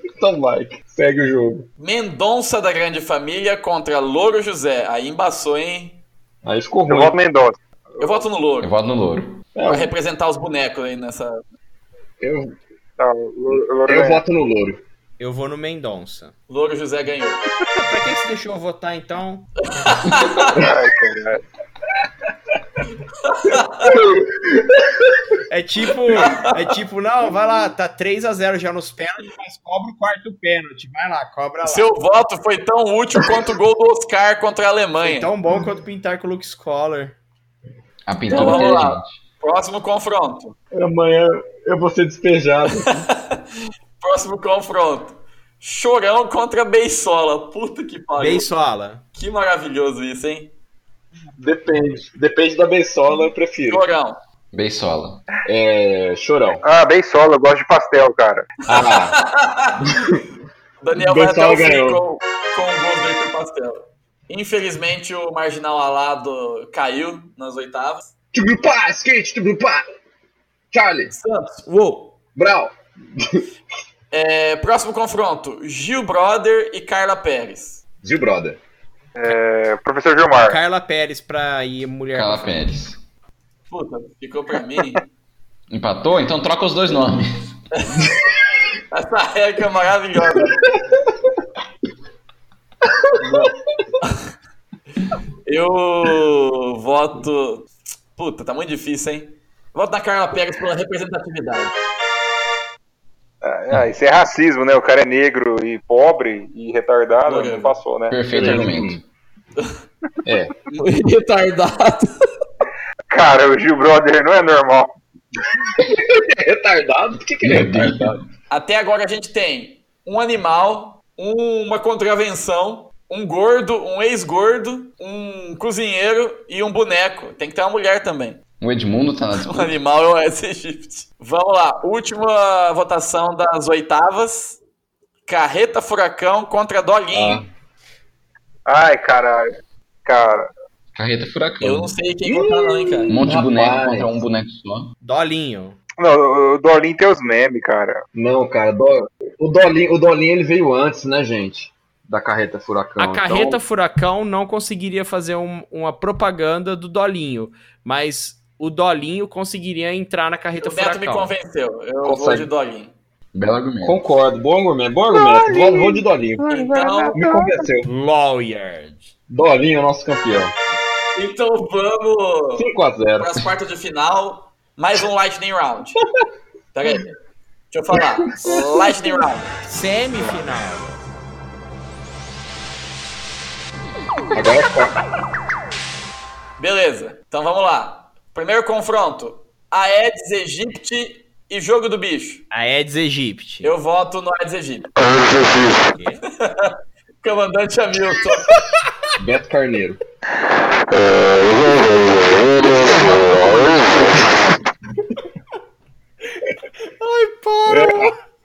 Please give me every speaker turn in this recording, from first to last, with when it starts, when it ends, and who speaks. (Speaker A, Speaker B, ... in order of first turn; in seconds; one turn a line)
Speaker A: 0.2-1.7
Speaker B: 1.8-6.0
Speaker A: 6.5-7.2
Speaker C: 6.9-8.2
Speaker B: 8.0-8.7
Speaker D: 8.6-9.4
Speaker A: 9.6-9.9
Speaker B: 9.7-11.4
Speaker A: 12.2-12.5
Speaker C: 13.0-14.2
Speaker A: 13.9-14.8
Speaker E: 15.2-16.3
Speaker B: 16.5-17.5
Speaker E: 17.8-19.5
Speaker B: 19.7-20.6
Speaker C: 20.4-21.4
Speaker A: 20.5-20.9
Speaker B: 23.2-24.0
Speaker A: 23.8-25.2
Speaker E: 25.5-31.9
Speaker B: 26.2-26.5
Speaker B: 31.6-35.3
Speaker E: 35.0-37.2
Speaker D: 38.1-39.2
Speaker A: 38.3-38.8
Speaker B: 38.3-40.5
Speaker A: 40.7-43.0
Speaker B: 42.7-43.5
Speaker B: 44.0-48.5
Speaker E: 48.2-49.0
Speaker B: 49.1-50.5
Speaker A: 51.4-53.9
Speaker B: 53.6-54.2
Speaker D: 54.5-55.2
Speaker A: 55.5-56.6
Speaker C: 56.6-58.5
Speaker A: 58.7-59.2
Speaker B: 58.7-60.1
Speaker A: 59.9-60.2
Speaker B: 60.8-68.1
Speaker A: 61.0-62.0
Speaker A: 68.3-69.8
Speaker A: 70.7-71.1
Speaker B: 71.1-72.2
Speaker A: 72.4-73.5
Speaker B: 74.1-77.8
Speaker A: 78.0-78.6
Speaker C: 79.2-80.6
Speaker E: 80.3-82.7
Speaker D: 82.1-83.0
Speaker B: 83.7-85.0
Speaker D: 85.7-87.5
Speaker B: 87.7-88.1
Speaker B: 88.9-90.7
Speaker A: 93.0-93.5
Speaker B: 93.2-94.2
Speaker B: 95.5-101.8
Speaker C: 103.4-108.2
Speaker B: 107.3-107.7
Speaker D: 108.1-109.0
Speaker A: 108.3-109.0
Speaker A: 110.3-110.5
Speaker B: 110.7-112.2
Speaker C: 113.1-114.9
Speaker A: 115.7-118.2
Speaker D: 117.4-118.2
Speaker B: 118.5-128.4
Speaker D: 128.6-129.8
Speaker B: 129.4-134.6
Speaker B: 135.3-137.4
Speaker A: 137.1-137.4
Speaker C: 138.7-139.5
Speaker C: 140.1-140.5
Speaker D: 140.9-141.9
Speaker B: 141.6-143.1
Speaker A: 142.2-144.2
Speaker D: 143.1-144.9
Speaker E: 145.0-145.8
Speaker C: 146.0-148.0
Speaker A: 148.1-153.6
Speaker E: 153.0-161.3
Speaker B: 160.6-162.9
Speaker A: 162.0-162.5
Speaker D: 163.3-164.0
Speaker A: 163.8-166.4
Speaker C: 165.1-167.7
Speaker B: 166.5-167.2
Speaker A: 167.1-167.9
Speaker E: 167.8-169.1
Speaker A: 169.3-170.5
Speaker B: 171.2-176.0
Speaker A: 172.6-173.3
Speaker B: 176.7-177.2
Speaker B: 177.7-179.5
Speaker A: 177.9-179.2
Speaker E: 179.6-181.0
Speaker A: 184.3-185.0
Speaker B: 186.6-192.4
Speaker E: 192.5-193.7
Speaker B: 193.6-195.1
Speaker C: 195.1-195.8
Speaker E: 195.8-196.2
Speaker B: 196.4-198.6
Speaker A: 199.2-200.0
Speaker C: 200.9-203.9
Speaker E: 207.0-208.2
Speaker A: 207.7-208.1